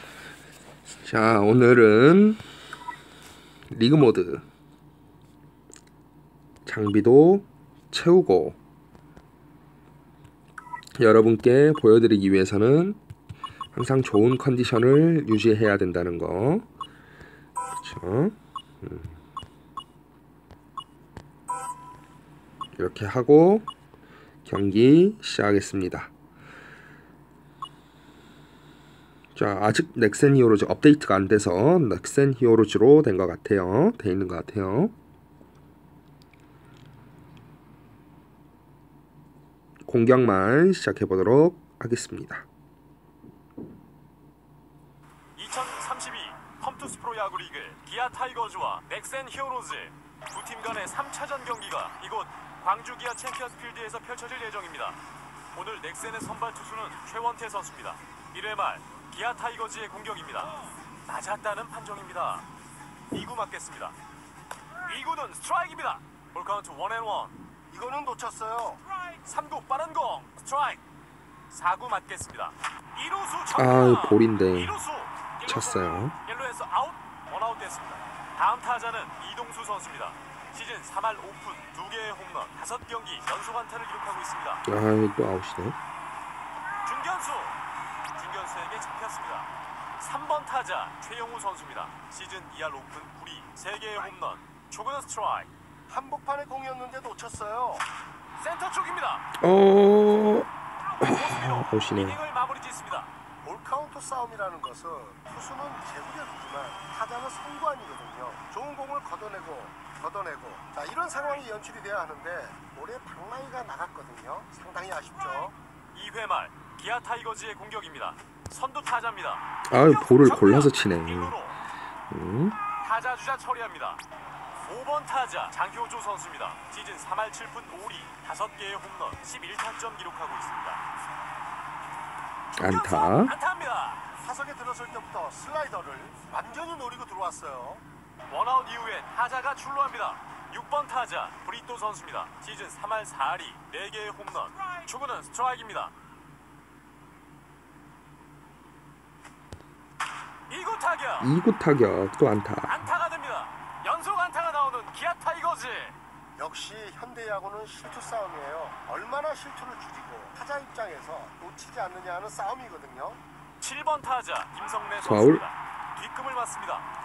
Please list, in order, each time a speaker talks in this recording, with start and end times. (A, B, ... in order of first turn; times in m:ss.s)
0:01.0-0:02.4 A
0:03.7-0:04.4 A
0:06.7-0:08.6 A
0:11.0-0:13.0 A
0:13.7-0:16.6 A
0:17.8-0:19.1 A
0:22.8-0:23.7 A
0:24.4-0:26.1 A
0:29.4-0:34.9 A
0:39.9-0:42.5 A
0:45.4-0:55.0 B
0:55.5-1:02.4 B
1:03.1-1:04.0 B
1:04.8-1:07.4 B
1:07.7-1:08.8 C
1:09.1-1:10.8 B
1:11.5-1:24.6 B
1:13.6-1:14.8 A
1:15.4-1:16.1 A
1:24.7-1:25.8 A
1:26.8-1:27.6 B
1:28.1-1:35.5 B
1:35.9-1:37.8 C
1:38.4-1:39.3 B
1:39.4-1:40.5 A
1:41.0-1:43.1 B
1:41.0-1:42.2 A
1:43.4-1:55.6 C
1:55.9-2:01.6 B
1:59.7-2:01.4 A
2:02.1-2:02.6 A
2:02.7-2:04.0 B
2:04.6-2:10.8 B
2:12.6-2:13.4 A
2:12.6-2:14.0 B
2:14.2-2:17.8 C
2:18.3-2:25.9 B
2:30.5-2:31.3 B
2:31.2-2:32.8 A
2:32.7-2:36.0 B
2:36.4-2:43.2 C
2:43.6-2:46.8 B
2:45.0-2:45.4 A